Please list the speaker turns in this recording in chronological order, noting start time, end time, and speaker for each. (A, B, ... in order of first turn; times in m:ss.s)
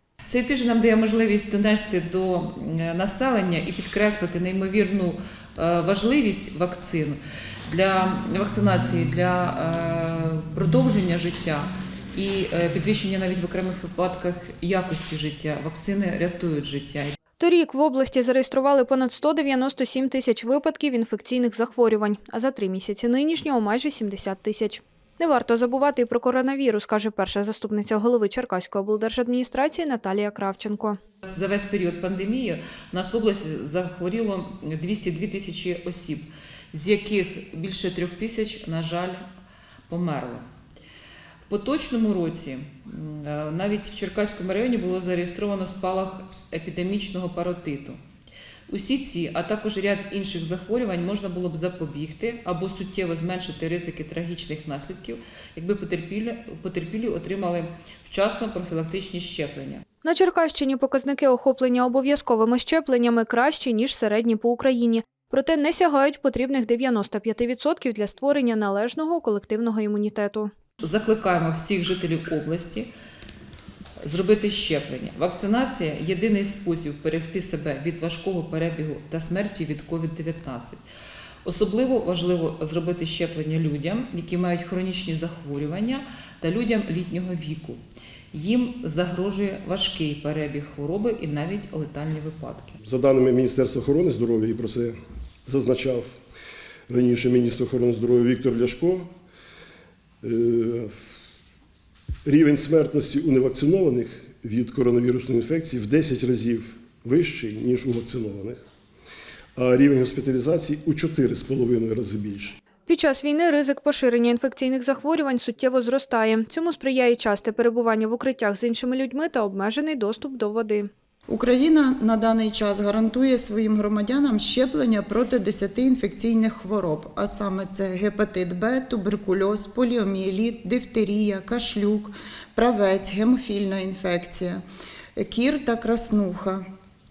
0:00.2-0:17.2 A
0:17.4-0:31.0 B
0:31.2-0:39.2 A
0:39.9-0:40.4 A
0:41.5-0:48.0 A
0:48.7-0:59.8 A
1:00.0-1:10.5 B
1:10.8-1:12.9 A
1:14.0-1:20.8 A
1:21.4-1:27.8 A
1:28.3-1:32.8 A
1:32.8-1:34.9 C
1:35.4-1:36.2 C
1:36.9-1:39.1 C
1:40.2-1:41.0 C
1:42.2-1:48.6 C
1:49.6-1:52.6 C
1:52.8-2:00.9 B
2:01.3-2:14.6 D
2:15.2-2:16.6 D